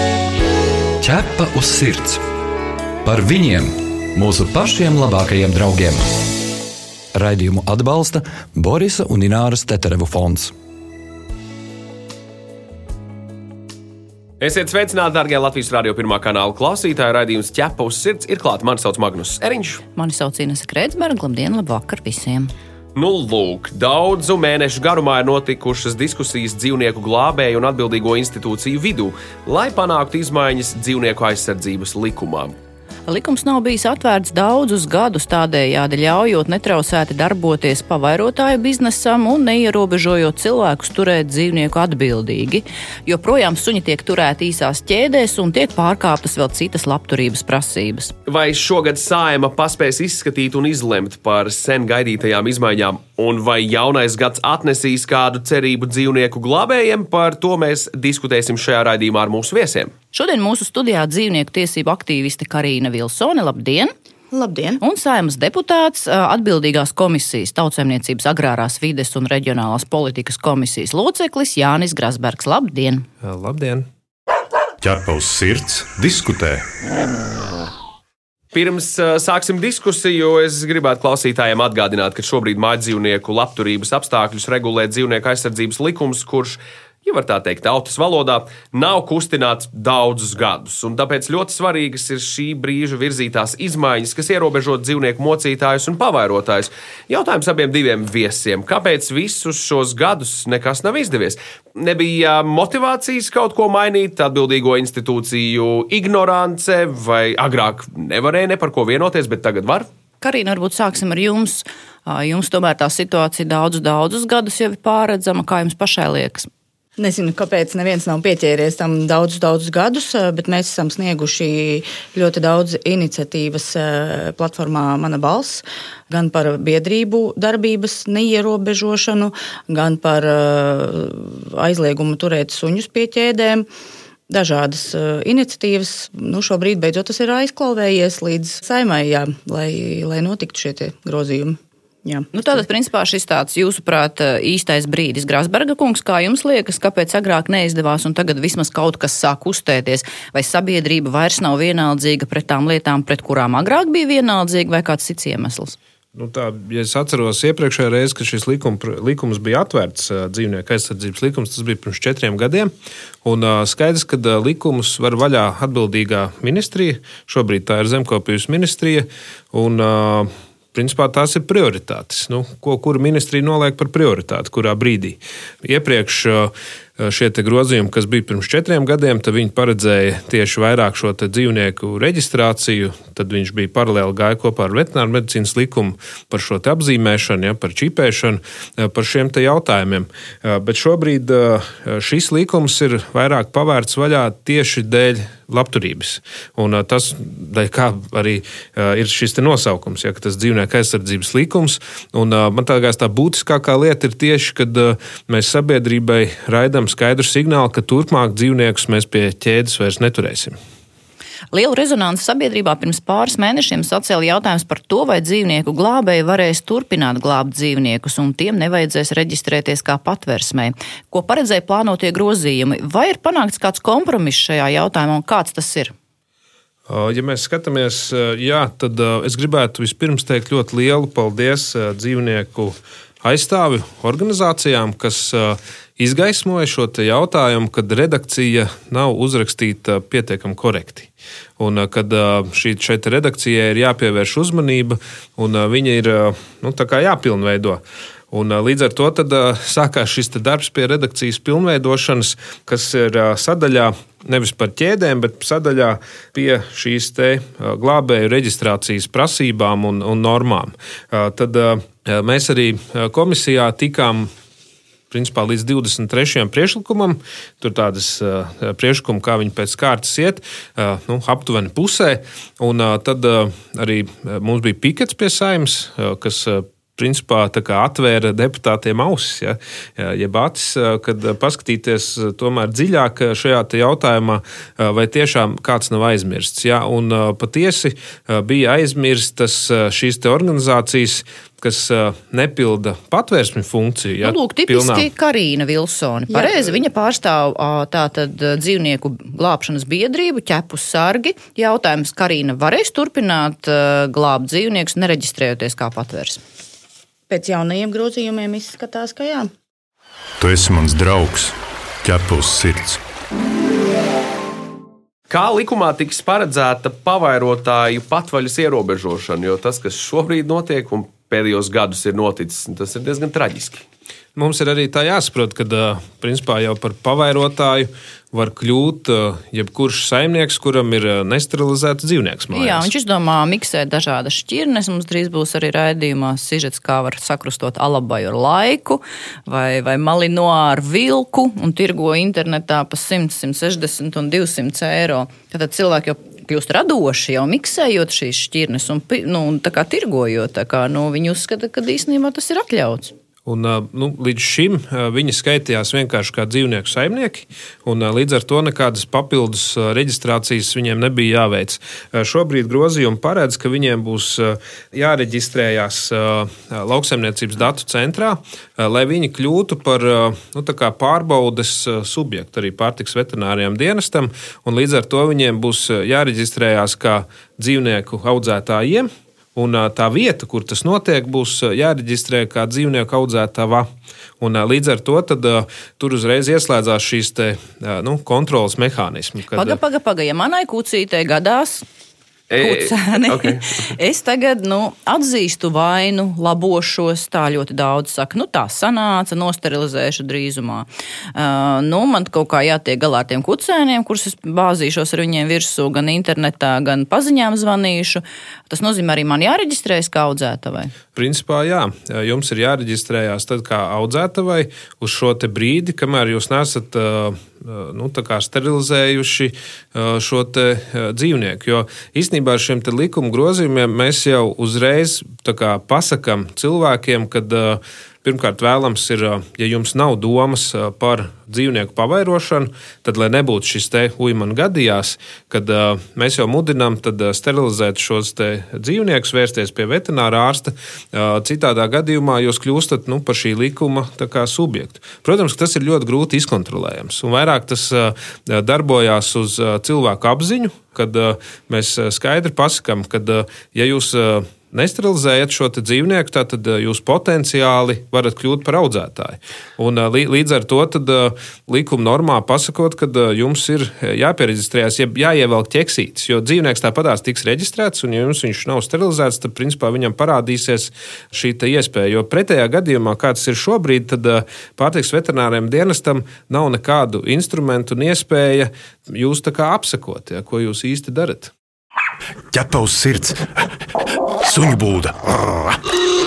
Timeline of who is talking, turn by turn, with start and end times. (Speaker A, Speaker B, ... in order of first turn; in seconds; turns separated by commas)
Speaker A: 1.0-2.2, Speaker A: 3.0-6.3, Speaker A: 7.1-10.5, Speaker B: 14.4-19.8, Speaker C: 20.0-22.5, Speaker B: 22.9-32.5, Speaker C: 33.1-48.1, Speaker B: 48.3-59.9, Speaker C: 60.1-63.9, Speaker D: 64.3-64.8, Speaker C: 64.8-73.1, Speaker E: 73.2-73.9, Speaker F: 74.8-76.7, Speaker B: 78.5-109.9, Speaker C: 110.2-116.5, Speaker D: 117.0-133.7, Speaker D: 134.3-142.3, Speaker C: 142.3-155.8, Speaker E: 156.2-162.7, Speaker E: 163.2-210.6, Speaker C: 211.5-225.9, Speaker E: 226.9-247.8, Speaker E: 248.3-264.3, Speaker E: 265.1-295.1, Speaker C: 294.2-306.4, Speaker D: 307.3-309.5, Speaker F: 310.4-313.0, Speaker B: 315.3-323.9, Speaker E: 324.4-332.9, Speaker C: 332.5-353.1, Speaker E: 353.5-383.9, Speaker E: 384.4-389.8, Speaker C: 389.5-391.9, Speaker B: 392.5-393.9, Speaker C: 392.6-410.9, Speaker E: 411.1-481.5, Speaker F: 482.5-483.5, Speaker F: 484.4-485.8